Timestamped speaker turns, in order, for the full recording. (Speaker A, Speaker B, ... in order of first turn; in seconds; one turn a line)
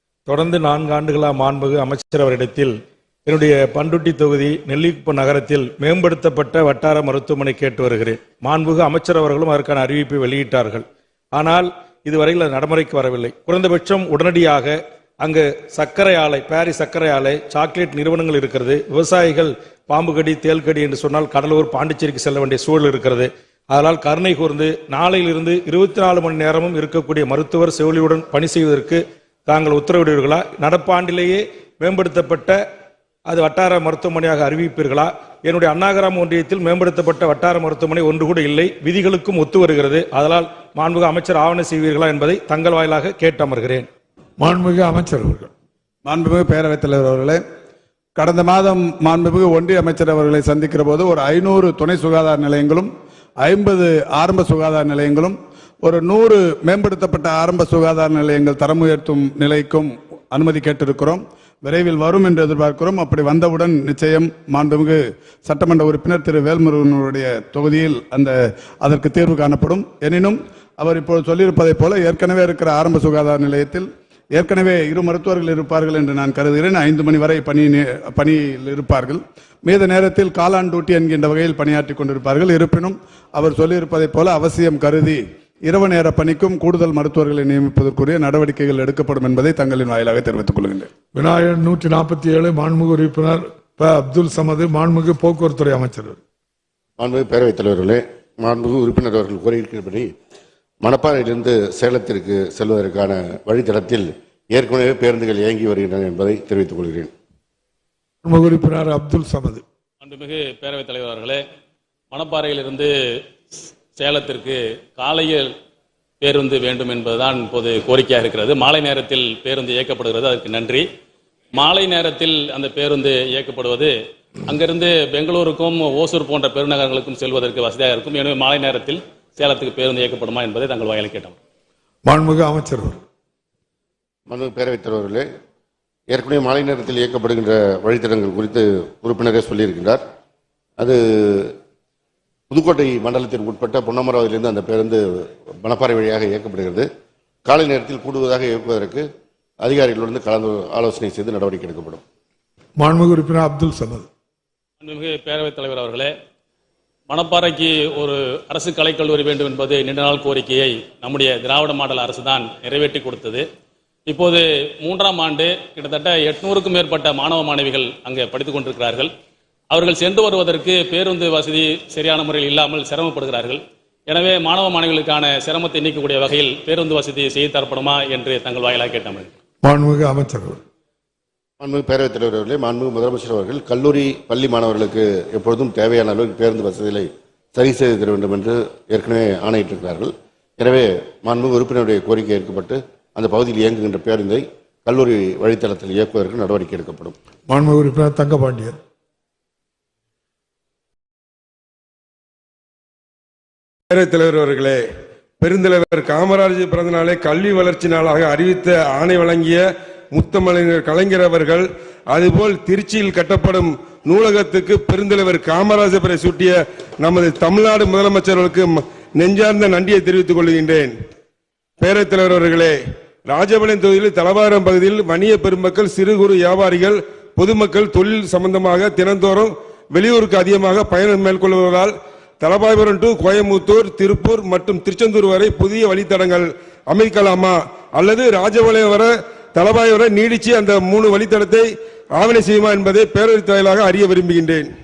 Speaker A: 0.2-32.6
Speaker A: 33.3-43.9
Speaker B: 44.4-45.5
Speaker C: 46.0-47.4
Speaker C: 48.1-90.9
Speaker B: 91.1-96.2
Speaker D: 97.0-100.1
Speaker D: 100.8-107.1
Speaker B: 108.2-109.6
Speaker E: 110.0-111.4
Speaker E: 112.1-112.9
Speaker E: 113.5-115.5
Speaker E: 116.2-120.8
Speaker E: 121.5-123.9
Speaker E: 124.5-131.3
Speaker B: 132.0-133.0
Speaker D: 134.3-135.2
Speaker D: 136.1-140.0
Speaker D: 140.8-141.5
Speaker D: 142.5-146.8
Speaker D: 147.4-149.1
Speaker D: 149.6-152.0
Speaker B: 152.8-154.1
Speaker E: 154.8-156.1
Speaker E: 157.1-163.4
Speaker E: 164.1-169.1
Speaker E: 169.7-179.3
Speaker B: 179.6-180.6
Speaker D: 181.6-197.1
Speaker B: 197.5-198.8
Speaker F: 203.9-204.8
Speaker F: 205.4-209.6
Speaker F: 210.1-220.9
Speaker F: 221.8-222.8
Speaker F: 223.3-241.7
Speaker F: 242.2-244.7